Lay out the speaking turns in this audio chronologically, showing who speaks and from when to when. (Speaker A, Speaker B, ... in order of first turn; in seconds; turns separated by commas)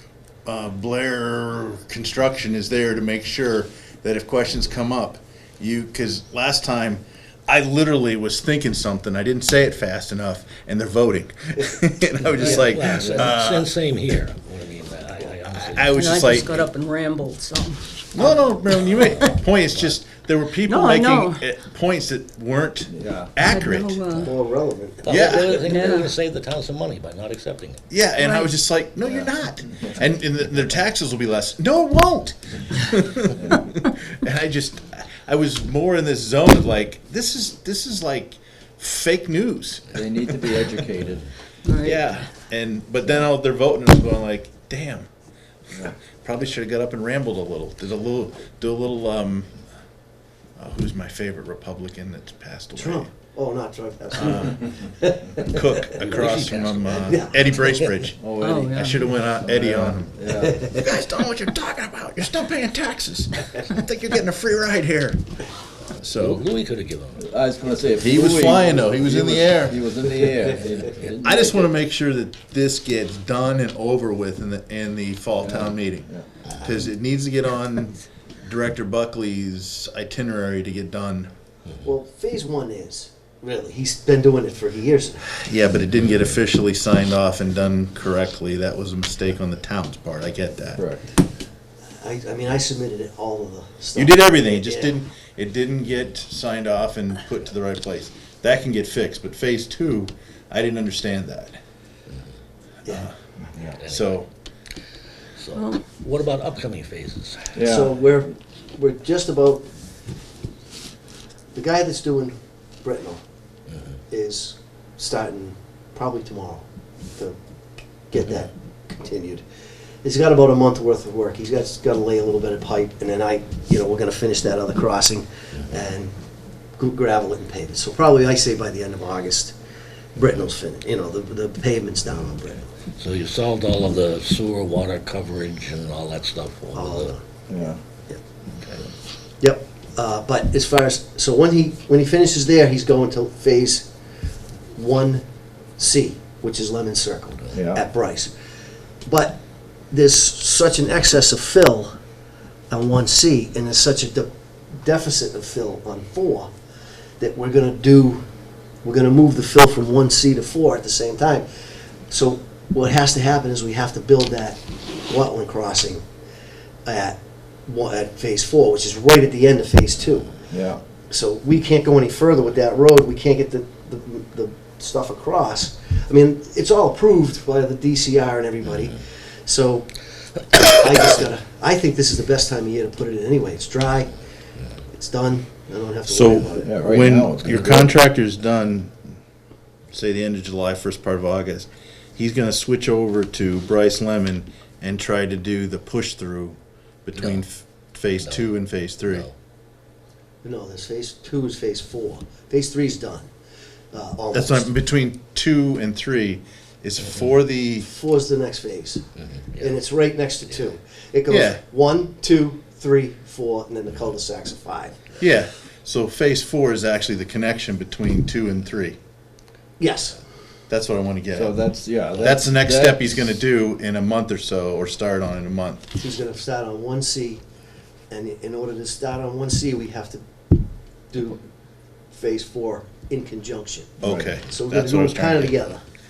Speaker A: 0.5-13.7, Speaker B: 12.3-16.2, Speaker C: 12.4-13.3, Speaker A: 15.5-16.7, Speaker D: 15.9-18.0, Speaker A: 18.1-24.3, Speaker B: 18.7-20.0, Speaker D: 20.7-21.4, Speaker C: 22.9-23.3, Speaker D: 23.4-24.3, Speaker E: 24.2-25.6, Speaker B: 25.0-27.8, Speaker A: 25.1-25.6, Speaker D: 25.7-26.1, Speaker A: 27.9-40.7, Speaker D: 28.2-28.4, Speaker C: 29.0-30.0, Speaker C: 33.3-33.7, Speaker C: 39.9-41.3, Speaker D: 41.7-42.0, Speaker A: 41.8-45.1, Speaker A: 45.8-49.5, Speaker A: 50.6-53.1, Speaker E: 52.8-55.8, Speaker A: 54.1-54.7, Speaker A: 55.5-60.1, Speaker B: 56.0-57.9, Speaker E: 56.9-57.4, Speaker C: 58.2-60.7, Speaker D: 58.4-59.1, Speaker E: 60.4-60.8, Speaker A: 60.7-65.2, Speaker A: 66.0-66.4, Speaker B: 66.1-67.2, Speaker C: 67.2-71.5, Speaker A: 68.0-70.1, Speaker A: 71.0-81.3, Speaker C: 75.4-76.3, Speaker E: 81.8-85.2, Speaker A: 85.4-90.9, Speaker C: 90.8-91.1, Speaker E: 92.0-95.0, Speaker A: 94.0-101.6, Speaker A: 102.9-103.1, Speaker B: 103.8-104.2, Speaker A: 103.9-104.3, Speaker B: 105.4-107.5, Speaker C: 107.5-107.9, Speaker E: 107.6-109.6, Speaker E: 111.5-113.2, Speaker E: 114.1-116.6, Speaker E: 118.1-119.4, Speaker E: 120.0-126.1, Speaker E: 126.8-129.5, Speaker E: 130.2-132.7, Speaker B: 133.0-137.1, Speaker E: 136.7-137.2, Speaker C: 137.5-137.8, Speaker B: 138.5-138.8, Speaker E: 139.4-143.9, Speaker E: 144.8-145.2, Speaker E: 145.8-148.3, Speaker C: 147.5-147.8, Speaker E: 149.0-149.4, Speaker E: 149.9-151.9, Speaker E: 152.7-156.5, Speaker E: 157.2-158.2, Speaker E: 158.8-161.5, Speaker E: 162.1-166.0, Speaker E: 166.8-170.3, Speaker C: 170.5-170.8, Speaker E: 171.1-180.0, Speaker E: 180.5-184.1, Speaker E: 184.9-186.8, Speaker A: 186.1-188.9, Speaker C: 186.6-187.9, Speaker A: 189.9-199.3, Speaker B: 197.2-197.4, Speaker B: 198.2-199.3, Speaker E: 200.4-203.3, Speaker E: 203.9-204.7, Speaker A: 204.3-207.9, Speaker E: 207.8-209.0, Speaker B: 209.2-209.7, Speaker E: 209.6-215.0, Speaker A: 211.3-211.6, Speaker A: 215.2-219.0, Speaker E: 219.8-220.2, Speaker A: 220.7-221.5, Speaker C: 221.3-223.1, Speaker A: 222.2-225.9, Speaker E: 226.0-227.4, Speaker E: 228.1-230.2, Speaker E: 231.1-231.4, Speaker E: 232.1-235.8, Speaker A: 234.0-235.6, Speaker C: 234.0-234.3